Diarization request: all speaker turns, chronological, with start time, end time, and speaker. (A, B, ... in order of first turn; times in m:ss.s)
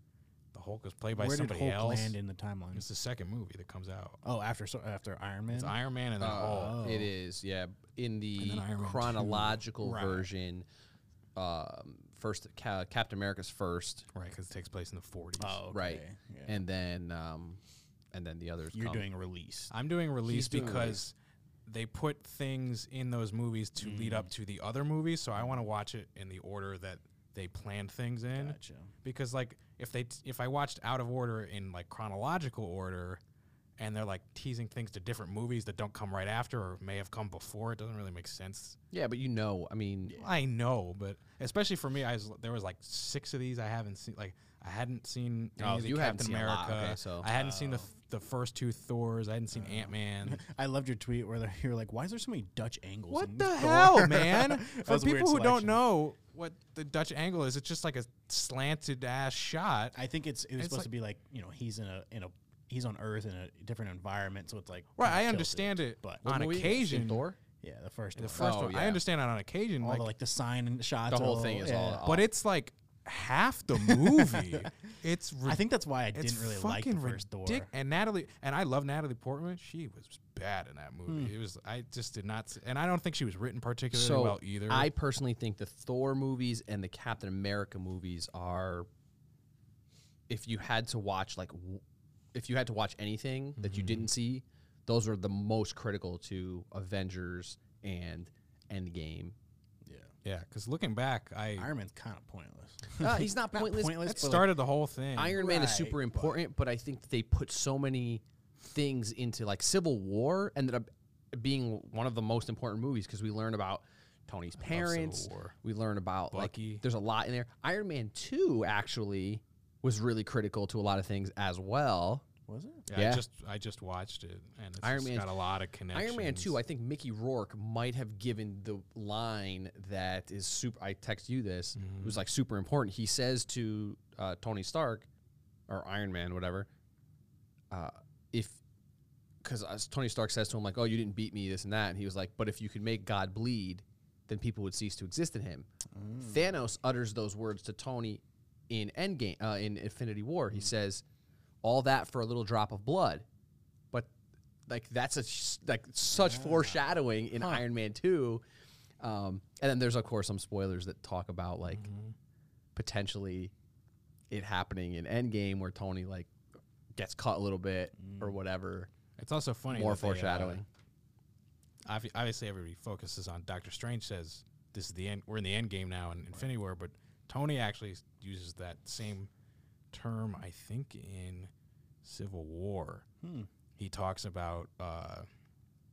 0:00.5-0:02.1 A
0:01.1-0:02.9 B
0:02.7-0:04.2 A
0:04.2-0:05.8 B
0:05.5-0:06.9 A
0:06.2-0:10.6 C
0:06.3-0:07.1 B
0:08.4-0:10.1 A
0:11.4-0:14.1 C
0:14.1-0:15.6 A
0:15.4-0:16.6 B
0:15.7-0:17.6 C
0:18.1-0:19.0 C
0:18.7-0:19.7 B
0:19.7-0:21.1 A
0:20.2-0:21.0 C
0:21.6-0:33.2 A
0:23.8-0:24.3 B
0:28.3-0:28.9 B
0:33.8-0:38.8 A
0:38.9-0:40.2 C
0:40.1-0:50.4 A
0:45.6-0:47.3 C
0:47.4-0:47.9 B
0:49.6-0:55.8 B
0:53.1-1:00.0 A
0:59.9-1:06.2 B
1:00.6-1:00.9 A
1:05.0-1:07.3 A
1:06.2-1:07.4 C
1:07.6-1:08.5 B
1:08.2-1:10.1 A
1:08.4-1:09.0 C
1:09.8-1:12.1 B
1:11.1-1:12.3 C
1:12.0-1:24.9 A
1:13.7-1:14.7 B
1:15.4-1:17.7 B
1:21.1-1:21.3 B
1:23.9-1:28.9 C
1:30.3-1:31.8 C
1:32.3-1:39.4 C
1:33.6-1:34.1 A
1:39.9-1:40.1 B
1:40.2-1:41.7 A
1:41.6-1:44.6 B
1:43.0-1:44.4 C
1:44.0-1:45.4 A
1:45.1-2:02.2 C
1:45.3-1:46.4 B
1:54.6-1:55.6 A
1:56.3-1:56.8 A
2:02.5-2:02.9 B
2:02.9-2:06.6 A
2:02.9-2:03.2 C
2:04.8-2:05.4 C
2:05.9-2:15.1 C
2:11.8-2:12.2 A
2:15.7-2:16.7 C
2:17.7-2:18.6 C
2:19.4-2:25.7 C
2:25.9-2:26.6 B
2:26.2-2:31.0 C
2:31.6-2:33.2 C
2:34.7-2:38.4 C
2:36.1-2:36.8 B
2:39.0-2:41.8 C
2:41.7-2:42.1 A
2:42.7-2:43.5 C
2:44.3-2:46.3 C
2:46.9-2:48.9 C
2:48.0-2:48.4 B
2:49.2-2:50.6 A
2:49.7-2:50.6 C
2:51.9-2:59.3 A
2:59.9-3:01.5 A
3:02.0-3:03.1 A
3:03.2-3:03.5 B
3:03.8-3:05.2 A